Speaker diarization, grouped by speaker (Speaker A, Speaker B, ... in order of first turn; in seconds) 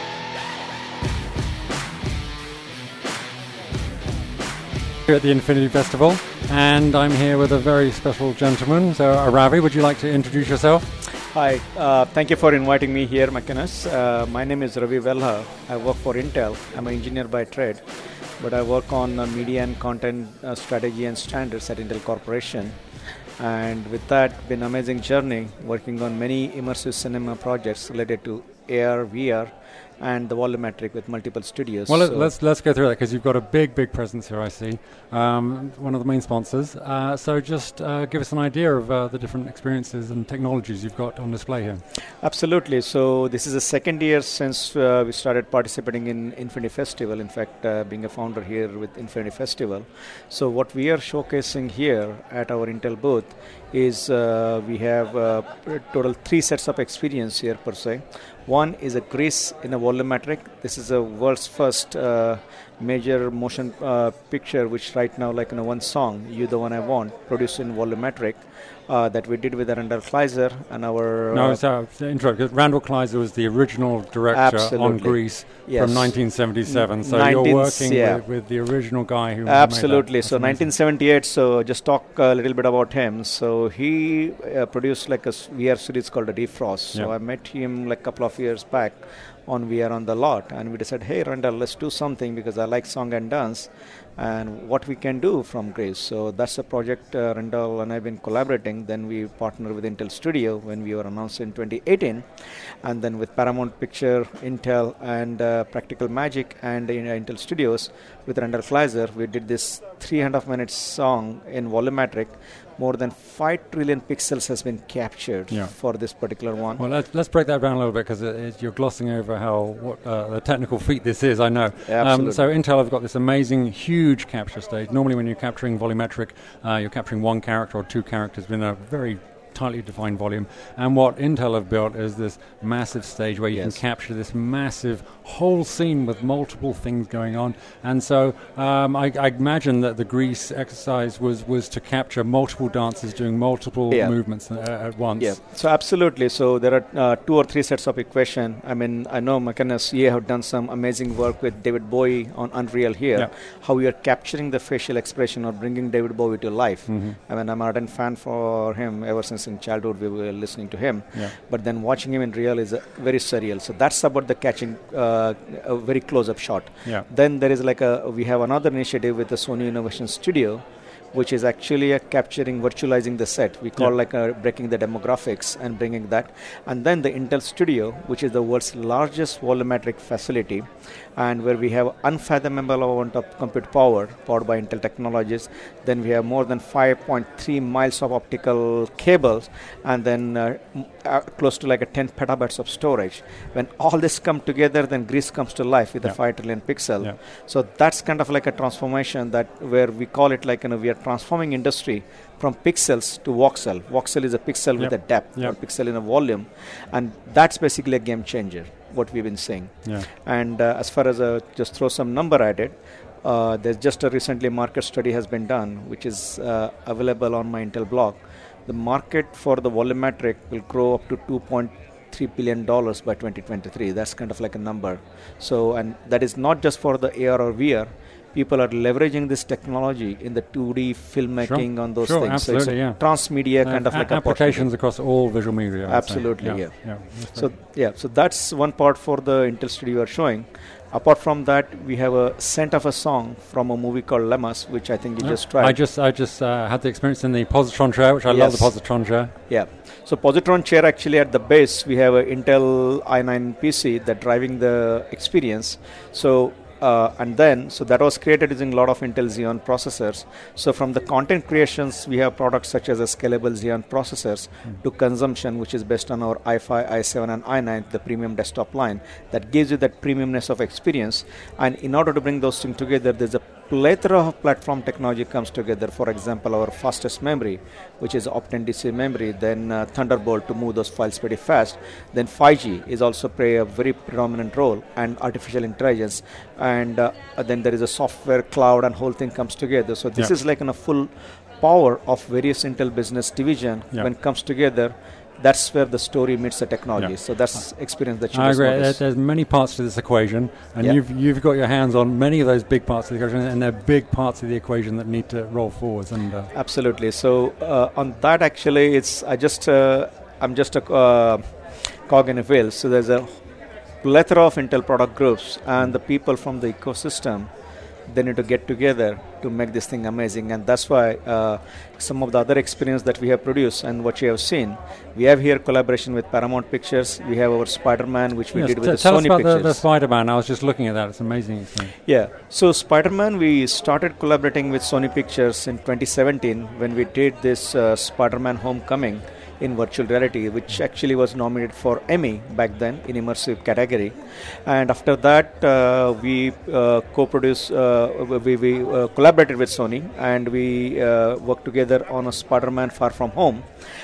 Speaker A: 5.1-10.9, 31.9-41.8, 71.3-80.7, 116.8-145.4, 156.9-157.2, 196.0-197.1, 204.8-205.5, 231.4-237.5, 245.2-249.3, 298.3-306.5, 328.5-331.9
Speaker B: 11.3-17.8, 18.4-22.8, 23.4-32.3, 42.2-71.6, 74.3-78.2, 79.4-102.2, 102.8-116.8, 121.8-122.5, 133.5-133.8, 143.9-144.4, 145.2-234.8, 235.9-245.8, 248.3-248.9, 249.5-299.0, 306.5-313.4, 314.0-317.5, 318.1-329.8, 332.0-353.6